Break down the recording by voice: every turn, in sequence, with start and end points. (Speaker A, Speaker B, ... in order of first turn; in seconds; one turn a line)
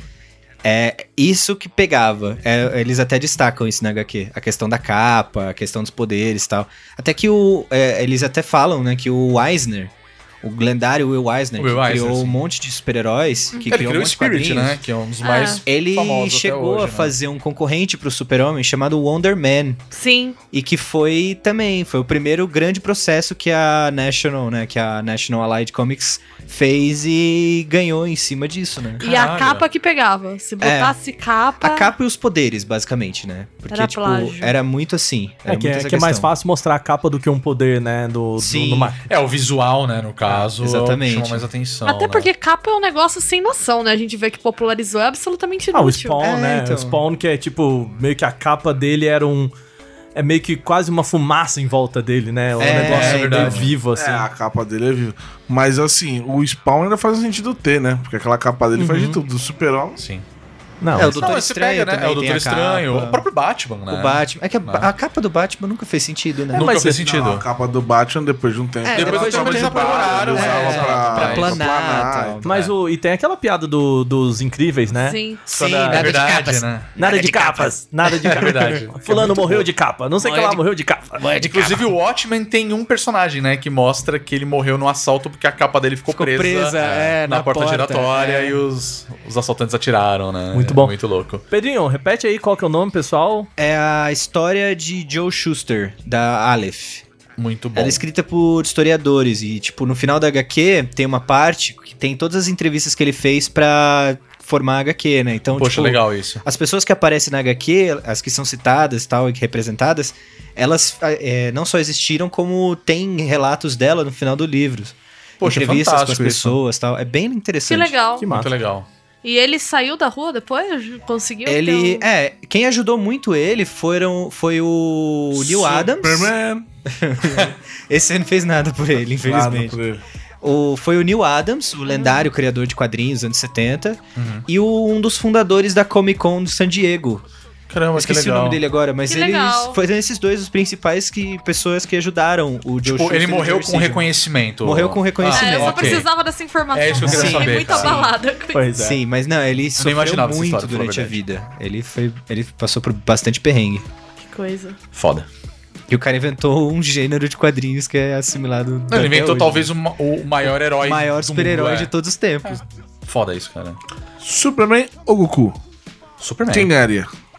Speaker A: 0.6-14.8
Speaker B: 11.6-12.4
Speaker B: 13.7-17.1
Speaker C: 15.2-15.6
Speaker A: 15.6-19.8
Speaker C: 19.9-20.4
Speaker A: 20.5-29.1
Speaker C: 29.0-31.9
Speaker B: 29.0-29.6
Speaker A: 30.6-30.9
Speaker A: 31.6-36.3
Speaker C: 33.7-34.5
Speaker D: 35.5-39.0
Speaker A: 38.4-39.0
Speaker B: 39.1-42.3
Speaker A: 40.3-41.5
Speaker C: 41.8-46.3
Speaker D: 45.7-49.5
Speaker A: 46.2-47.0
Speaker D: 50.1-54.2
Speaker A: 52.6-53.7
Speaker B: 52.6-53.7
Speaker E: 53.9-60.0
Speaker D: 58.8-59.2
Speaker B: 60.0-60.2
Speaker D: 60.8-61.2
Speaker A: 60.9-63.2
Speaker B: 61.0-64.9
Speaker A: 63.9-66.7
Speaker D: 66.5-67.0
Speaker B: 66.5-67.5
Speaker E: 67.0-72.4
Speaker A: 68.8-72.5
Speaker B: 68.9-71.6
Speaker D: 72.4-76.1
Speaker B: 72.5-72.7
Speaker C: 74.9-75.5
Speaker A: 75.5-78.6
Speaker B: 75.9-76.9
Speaker D: 77.0-81.3
Speaker B: 78.3-79.4
Speaker A: 80.2-80.6
Speaker A: 81.1-81.9
Speaker B: 81.4-91.4
Speaker A: 86.1-88.6
Speaker D: 90.5-90.9
Speaker D: 91.5-93.5
Speaker A: 93.6-97.0
Speaker B: 97.4-98.0
Speaker A: 97.7-118.0
Speaker B: 105.5-106.4
Speaker B: 115.4-116.6
Speaker C: 117.7-118.3
Speaker D: 118.2-118.5
Speaker B: 118.3-118.9
Speaker C: 119.2-122.0
Speaker A: 121.4-126.3
Speaker E: 125.3-126.7
Speaker A: 126.9-129.8
Speaker E: 129.2-130.0
Speaker A: 130.4-137.2
Speaker C: 131.9-132.2
Speaker B: 134.2-134.4
Speaker B: 137.7-138.6
Speaker A: 137.9-144.1
Speaker C: 139.1-139.8
Speaker B: 142.8-146.1
Speaker A: 144.6-146.1
Speaker C: 145.3-148.7
Speaker B: 146.7-148.1
Speaker A: 147.0-148.1
Speaker D: 148.5-149.0
Speaker A: 148.7-153.8
Speaker B: 149.8-151.2
Speaker C: 154.2-154.8
Speaker B: 154.9-155.3
Speaker A: 155.9-159.7
Speaker B: 158.9-161.9
Speaker A: 160.7-162.6
Speaker B: 162.4-163.8
Speaker E: 164.2-165.6
Speaker B: 166.2-166.7
Speaker E: 166.5-167.1